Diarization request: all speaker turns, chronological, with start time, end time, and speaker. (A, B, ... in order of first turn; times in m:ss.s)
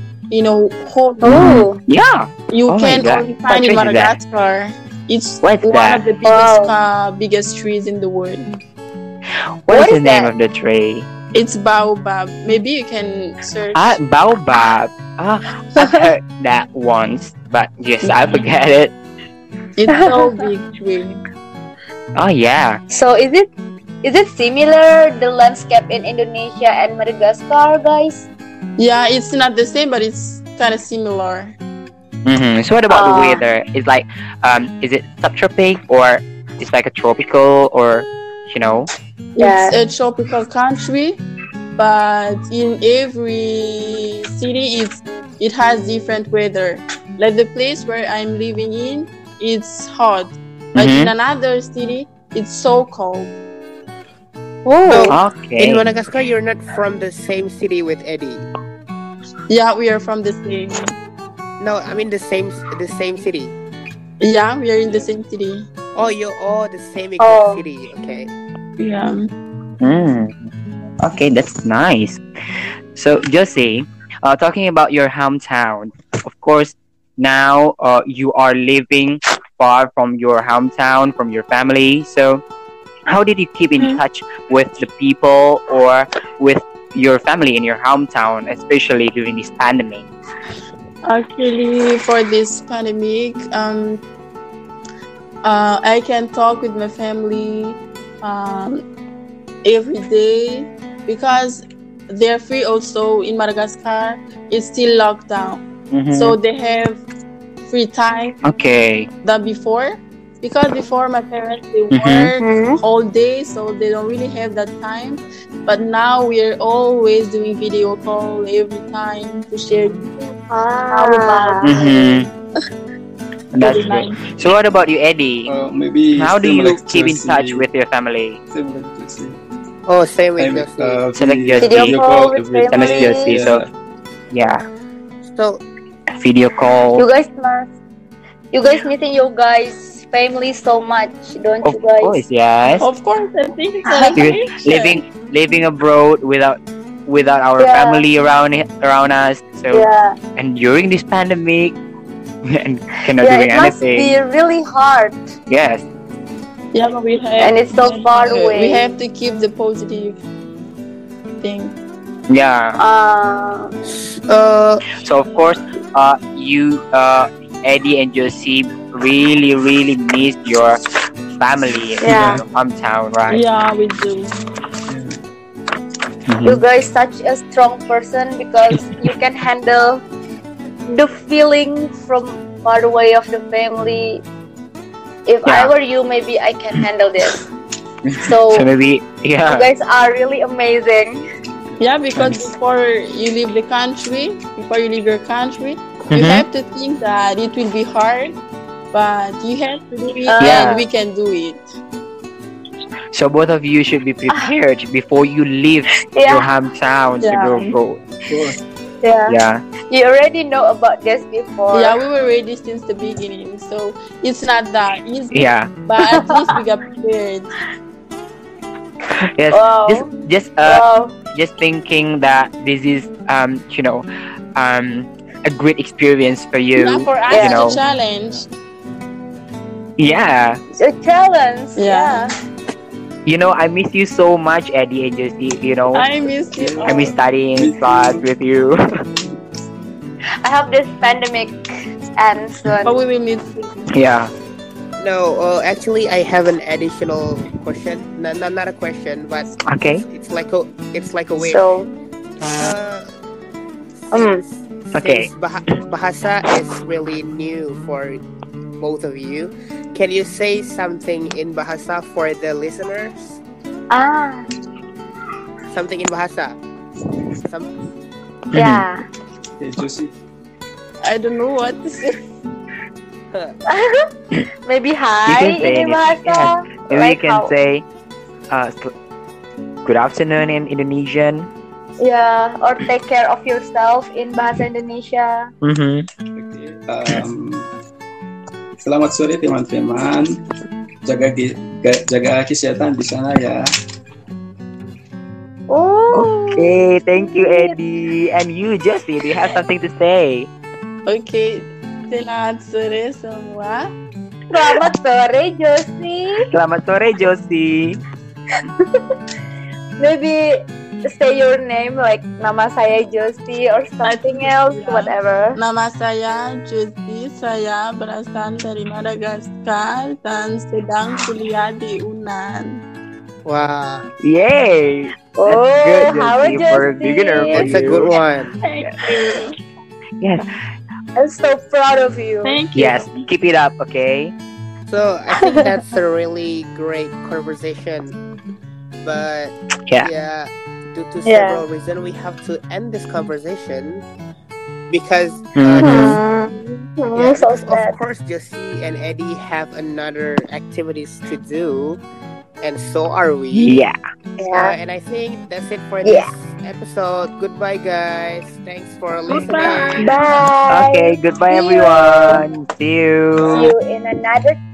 0:00.3-0:01.4 A
0:01.2-0:01.8 B
0:01.3-0:04.2 C
0:02.5-0:08.5 A
0:05.4-0:06.0 C
0:06.2-0:06.7 B
0:09.7-0:11.1 C
0:09.7-0:10.3 B
0:11.3-0:14.0 A
0:13.8-0:18.9 C
0:18.1-0:18.4 A
0:19.8-0:21.2 A
0:19.9-0:20.4 B
0:22.2-0:22.8 C
0:22.9-0:23.5 B
0:24.0-0:28.2 B
0:28.8-0:31.6 A
0:32.3-0:38.9 C
0:32.9-0:33.4 B
0:39.4-0:41.2 A
0:39.4-0:39.8 B
0:41.8-0:53.3 A
0:50.8-0:51.1 C
0:54.7-0:55.1 B
0:54.9-0:58.5 D
0:55.1-0:55.9 C
0:59.5-1:01.0 A
1:01.6-1:03.6 D
1:04.2-1:05.7 A
1:06.0-1:08.3 D
1:07.2-1:07.6 B
1:08.8-1:09.3 A
1:09.8-1:10.5 C
1:11.0-1:12.2 C
1:13.0-1:22.4 C
1:23.1-1:30.1 C
1:31.0-1:34.0 A
1:35.4-1:38.8 A
1:39.6-1:45.6 A
1:45.9-1:46.4 C
1:46.1-1:47.0 A
1:47.6-1:48.4 A
1:48.4-1:49.1 C
1:49.2-2:00.1 A
1:51.9-1:52.3 C
1:52.4-1:52.8 B
2:00.5-2:02.1 B
2:00.9-2:01.7 A
2:01.6-2:02.3 C
2:03.5-2:05.5 C
2:03.6-2:04.2 A
2:05.5-2:07.7 E
2:06.2-2:08.4 C
2:08.5-2:09.4 E
2:09.9-2:11.0 D
2:10.4-2:13.7 E
2:11.2-2:12.0 C
2:11.6-2:13.5 B
2:12.7-2:13.6 C
2:14.3-2:14.6 C
2:15.3-2:15.6 D
2:16.2-2:17.0 C
2:17.0-2:17.7 B
2:18.5-2:22.2 B
2:21.6-2:22.8 C
2:22.8-2:25.0 A
2:23.9-2:24.2 B
2:24.2-2:31.8 C
2:27.6-2:28.0 B
2:29.7-2:30.2 B
2:32.4-2:34.2 C
2:33.2-2:35.3 B
2:35.5-2:35.8 C
2:36.7-2:40.2 A
2:37.4-2:38.9 B
2:41.4-2:41.8 A
2:42.3-2:42.8 C
2:42.8-2:43.7 B
2:43.9-2:44.8 D
2:45.0-2:50.8 C
2:51.4-2:53.4 C
2:52.0-2:52.4 A
2:52.1-2:52.4 E
2:53.3-2:54.3 A
2:54.9-2:55.2 E
2:56.3-2:56.6 C
2:56.4-3:00.0 B
3:00.9-3:04.2 B
3:05.3-3:07.4 B
3:05.4-3:05.7 C
3:08.2-3:08.7 B
3:08.2-3:09.7 C
3:09.5-3:11.2 B
3:11.7-3:12.4 E
3:11.8-3:18.3 A
3:16.1-3:16.4 C
3:18.9-3:21.6 A
3:20.3-3:20.8 B
3:20.4-3:20.8 C
3:23.1-3:28.0 C
3:26.1-3:26.5 B
3:27.2-3:27.8 A
3:28.3-3:28.6 E
3:29.0-3:29.4 B
3:29.3-3:29.6 C
3:29.9-3:32.0 B
3:31.7-3:37.5 A
3:35.3-3:35.7 C
3:36.1-3:36.4 B
3:39.4-3:44.0 C
3:39.5-3:40.1 B
3:40.6-3:41.1 B
3:44.6-3:47.8 C
3:46.8-3:48.5 A
3:47.3-3:47.6 B
3:50.0-3:50.6 C
3:50.8-3:52.3 B
3:51.8-3:52.2 A
3:53.3-3:56.1 C
3:55.9-3:57.1 A
3:56.5-3:58.2 E
3:56.8-3:58.8 C
4:00.4-4:01.6 B
4:02.2-4:03.0 B
4:02.8-4:03.8 A
4:03.9-4:04.3 C
4:05.0-4:09.5 D
4:09.7-4:10.0 C
4:10.1-4:11.6 D
4:11.4-4:11.9 B
4:12.5-4:13.1 D
4:14.1-4:18.2 D
4:14.1-4:14.4 B
4:14.9-4:15.3 C
4:18.8-4:23.4 D
4:23.9-4:24.5 B
4:25.7-4:26.6 D
4:28.5-4:28.8 C
4:28.5-4:29.0 B
4:29.6-4:30.1 E
4:31.0-4:32.2 A
4:33.7-4:34.0 B
4:34.6-4:37.5 B
4:35.3-4:37.8 C
4:38.5-4:38.9 C
4:39.8-4:41.5 C
4:42.0-4:45.5 B
4:45.6-4:46.1 C
4:46.4-4:47.7 E
4:48.8-4:50.4 E
4:51.0-4:53.7 E
4:55.7-4:56.7 B
4:56.1-5:00.5 C
4:57.4-4:57.8 B
5:01.1-5:03.9 A
5:04.5-5:06.4 B
5:06.5-5:08.0 C
5:10.0-5:15.6 B
5:14.0-5:22.8 A
5:23.4-5:24.1 D
5:24.2-5:28.2 C
5:25.4-5:27.8 B
5:27.5-5:28.6 D
5:28.6-5:29.6 A
5:30.2-5:30.5 C
5:31.2-5:32.6 B
5:32.4-5:33.0 A
5:32.7-5:34.3 C
5:34.9-5:38.2 D
5:35.4-5:35.8 B
5:39.0-5:44.0 D
5:41.2-5:41.6 B
5:44.9-5:46.2 D
5:45.6-5:46.2 C
5:45.8-5:48.0 B
5:47.2-5:52.0 D
5:52.6-5:53.8 D
5:53.5-5:54.0 C
5:54.4-5:54.8 B
5:54.5-6:00.2 D
5:56.0-5:56.3 B
5:59.3-6:00.0 A
5:59.3-6:00.0 C
5:59.5-6:02.4 B
6:00.7-6:03.7 C
6:03.5-6:04.6 B